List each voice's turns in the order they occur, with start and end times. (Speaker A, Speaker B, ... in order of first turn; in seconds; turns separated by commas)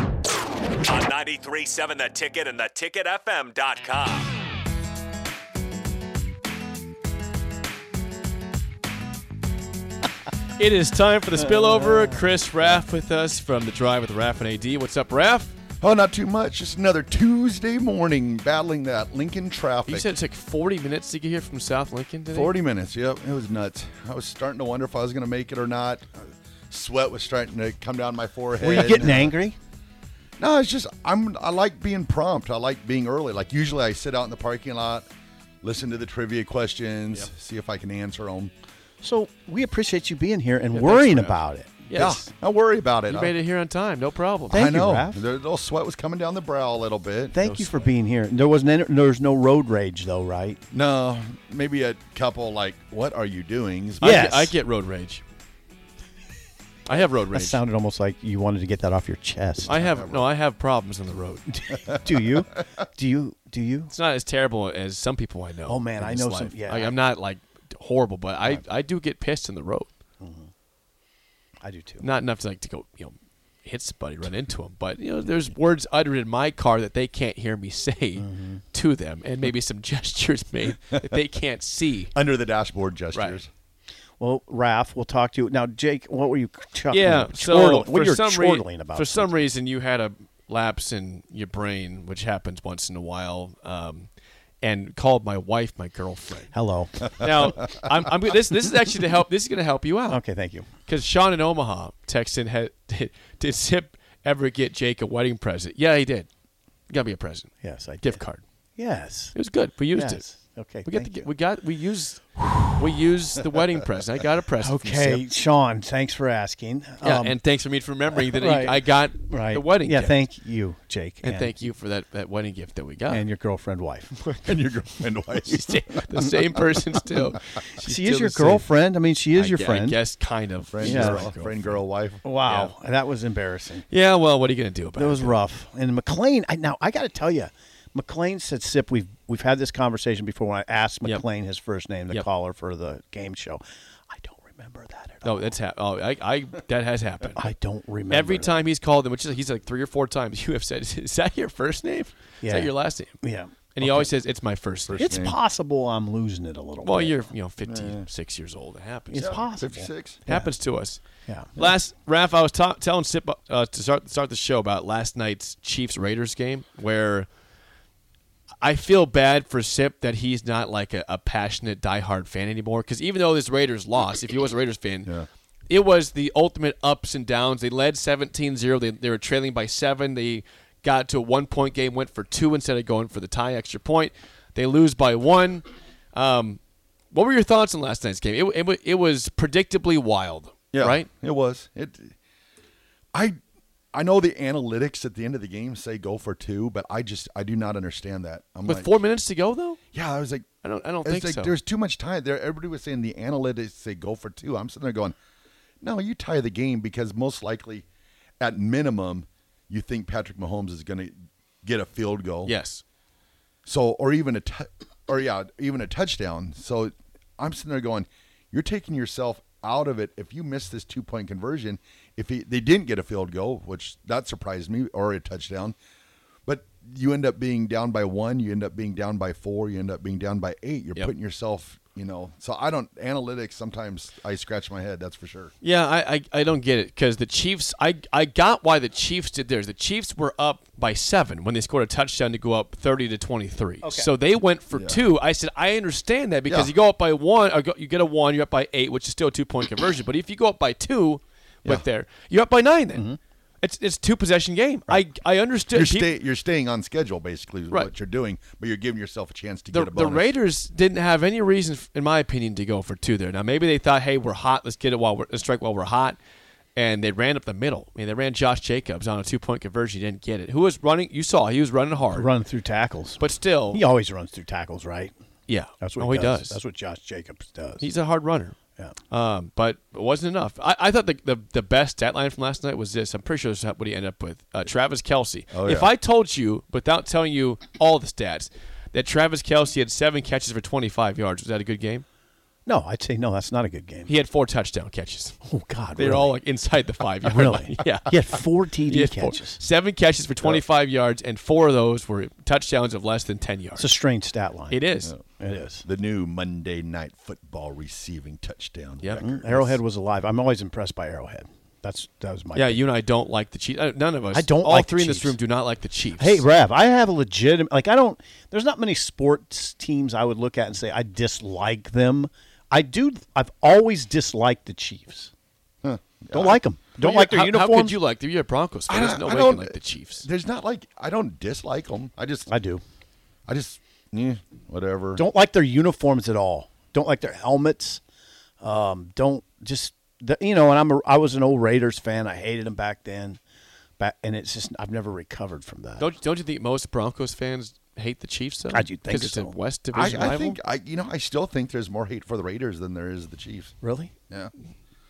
Speaker A: 0.8-4.3, Speaker B: 10.6-15.5, Speaker C: 11.6-12.1, Speaker D: 15.8-20.1, Speaker B: 19.9-22.6, Speaker D: 22.3-29.4, Speaker C: 28.6-29.6, Speaker D: 30.4-35.1, Speaker D: 35.6-38.5, Speaker C: 39.0-42.2, Speaker B: 40.7-42.2, Speaker D: 41.9-43.4, Speaker B: 43.1-44.7, Speaker C: 44.5-45.2, Speaker D: 44.5-47.9, Speaker C: 47.3-50.6, Speaker D: 50.7-54.1, Speaker B: 54.0-55.2, Speaker C: 54.0-54.5, Speaker B: 56.9-57.6, Speaker C: 57.0-59.8, Speaker D: 59.7-60.3, Speaker B: 59.7-61.6, Speaker C: 61.5-63.9, Speaker D: 61.9-62.2, Speaker B: 63.9-69.9, Speaker C: 65.6-67.0, Speaker C: 70.2-70.5, Speaker C: 71.6-72.1, Speaker B: 72.0-82.1, Speaker C: 75.2-75.5, Speaker C: 78.2-78.6, Speaker D: 82.1-83.5, Speaker B: 83.1-83.4, Speaker C: 84.2-89.4, Speaker B: 86.9-96.5, Speaker C: 96.5-97.3, Speaker B: 97.1-100.2, Speaker C: 100.1-100.7, Speaker B: 100.8-106.3, Speaker B: 106.9-107.5, Speaker C: 107.6-108.2, Speaker B: 108.0-108.4, Speaker C: 108.8-109.3, Speaker B: 109.3-110.2, Speaker C: 109.9-111.3, Speaker B: 110.8-115.2, Speaker C: 114.6-117.4, Speaker B: 117.0-120.2, Speaker C: 118.1-121.6, Speaker B: 121.2-123.2, Speaker C: 123.1-124.2, Speaker B: 124.2-124.6, Speaker D: 124.4-126.1, Speaker B: 125.4-128.7, Speaker C: 127.8-130.0, Speaker B: 129.3-131.8, Speaker D: 130.7-132.2, Speaker C: 130.8-131.4, Speaker C: 132.2-133.8, Speaker B: 132.4-132.7, Speaker B: 133.9-135.4, Speaker C: 134.9-145.5, Speaker B: 145.2-147.5, Speaker C: 147.4-148.6, Speaker B: 148.1-153.2, Speaker C: 152.4-154.1, Speaker B: 153.7-155.1, Speaker D: 154.9-155.4, Speaker C: 155.0-157.3, Speaker B: 156.8-159.3, Speaker D: 157.6-158.1, Speaker C: 159.1-160.5, Speaker D: 159.1-160.3, Speaker B: 160.3-161.0, Speaker C: 161.3-161.5, Speaker B: 161.6-167.3, Speaker B: 168.6-175.1, Speaker B: 175.7-186.6, Speaker B: 187.1-191.1, Speaker D: 190.7-192.1, Speaker D: 193.9-198.9, Speaker B: 198.6-199.8, Speaker D: 199.9-200.5, Speaker B: 200.6-201.6, Speaker D: 201.0-205.1, Speaker D: 205.8-207.8, Speaker D: 208.4-212.6, Speaker B: 212.4-212.8, Speaker D: 213.7-225.7, Speaker D: 226.5-235.5, Speaker B: 235.6-253.1, Speaker C: 243.8-244.1, Speaker D: 244.7-245.0, Speaker D: 246.4-246.7, Speaker C: 252.9-253.2, Speaker B: 253.6-256.1, Speaker D: 255.7-260.3, Speaker B: 259.7-266.2, Speaker B: 266.8-272.3, Speaker C: 272.0-275.1, Speaker B: 273.2-273.8, Speaker B: 275.5-276.6, Speaker C: 275.8-277.9, Speaker B: 277.8-278.6, Speaker B: 279.1-292.0, Speaker D: 285.5-285.9, Speaker C: 292.6-294.1, Speaker B: 294.1-295.3, Speaker C: 295.4-296.4, Speaker B: 295.9-303.9, Speaker C: 297.2-299.6, Speaker C: 303.8-305.8, Speaker B: 304.7-305.1, Speaker D: 305.8-309.4, Speaker B: 309.0-309.8, Speaker C: 309.2-312.8, Speaker B: 312.5-316.4, Speaker C: 314.3-315.4, Speaker C: 316.2-325.3, Speaker D: 325.8-326.6, Speaker C: 326.3-328.0, Speaker B: 327.0-330.2, Speaker D: 328.9-332.5, Speaker C: 332.5-332.8, Speaker D: 333.5-335.2, Speaker C: 335.1-338.0, Speaker C: 338.6-343.4, Speaker C: 344.0-346.1, Speaker B: 346.0-350.6, Speaker C: 348.7-349.6, Speaker D: 349.9-353.7, Speaker C: 350.1-350.4, Speaker C: 353.8-354.1